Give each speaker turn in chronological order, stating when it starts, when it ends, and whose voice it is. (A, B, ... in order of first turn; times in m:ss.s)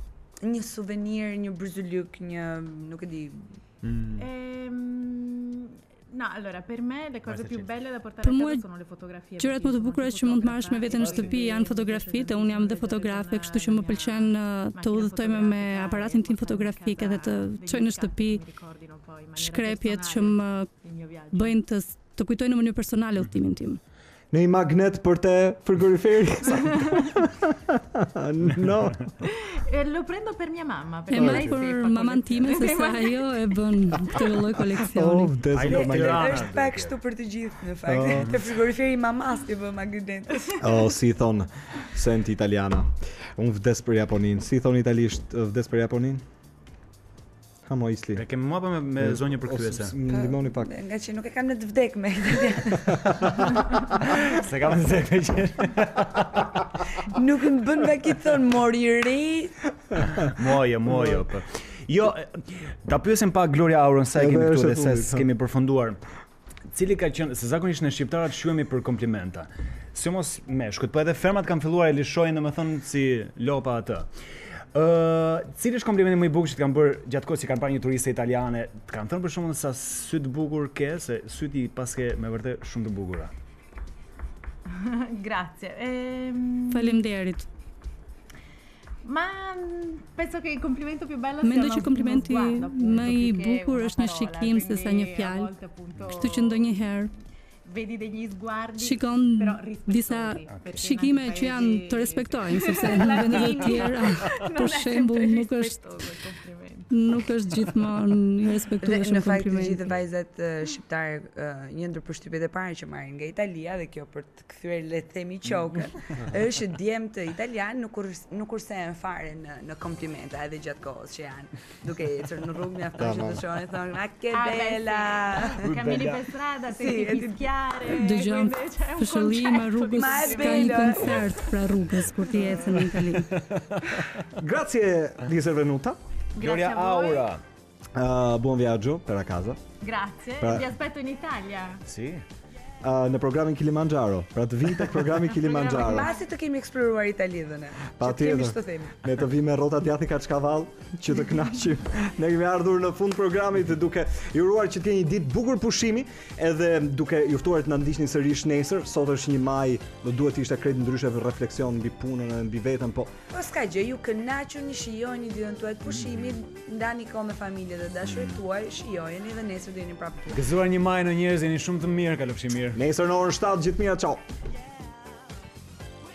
0:00.4-0:03.5 A
0:03.8-0:04.3 B
0:04.2-0:21.6 C
0:07.2-0:07.7 B
0:08.2-0:08.6 D
0:09.4-0:18.4 D
0:11.0-0:11.3 B
0:19.4-0:20.7 D
0:21.3-0:23.8 D
0:24.3-0:29.1 E
0:26.5-0:27.0 C
0:29.2-0:34.3 C
0:31.1-0:35.4 D
0:31.2-0:31.5 E
0:34.9-0:36.5 E
0:35.5-0:37.0 B
0:35.6-0:40.9 A
0:37.8-0:38.3 E
0:40.6-0:46.2 E
0:47.6-0:48.2 E
0:48.1-0:50.0 B
0:49.0-0:50.7 E
0:50.0-0:53.5 A
0:53.0-0:53.3 E
0:54.0-0:56.6 B
0:57.0-0:59.6 A
1:00.2-1:06.0 B
1:04.1-1:05.2 E
1:06.7-1:14.1 B
1:14.7-1:23.3 B
1:24.7-1:27.0 C
1:26.7-1:27.5 D
1:29.0-1:36.7 C
1:31.4-1:35.5 D
1:36.1-1:37.1 D
1:37.6-1:47.2 C
1:38.8-1:45.8 D
1:46.9-1:50.0 D
1:48.8-2:05.6 A
2:03.0-2:03.4 E
2:04.3-2:13.0 C
2:05.6-2:06.2 B
2:06.7-2:07.5 A
2:07.8-2:13.4 D
2:09.9-2:11.4 A
2:13.3-2:14.2 B
2:14.3-2:16.0 E
2:16.3-2:17.3 C
2:16.4-2:17.4 B
2:17.9-2:19.6 E
2:19.8-2:21.8 C
2:20.4-2:20.7 E
2:21.8-2:22.2 B
2:22.8-2:26.1 E
2:25.4-2:29.0 A
2:25.8-2:26.0 C
2:28.0-2:43.1 E
2:43.3-2:50.5 A
2:50.3-2:52.8 B
2:52.7-2:54.2 E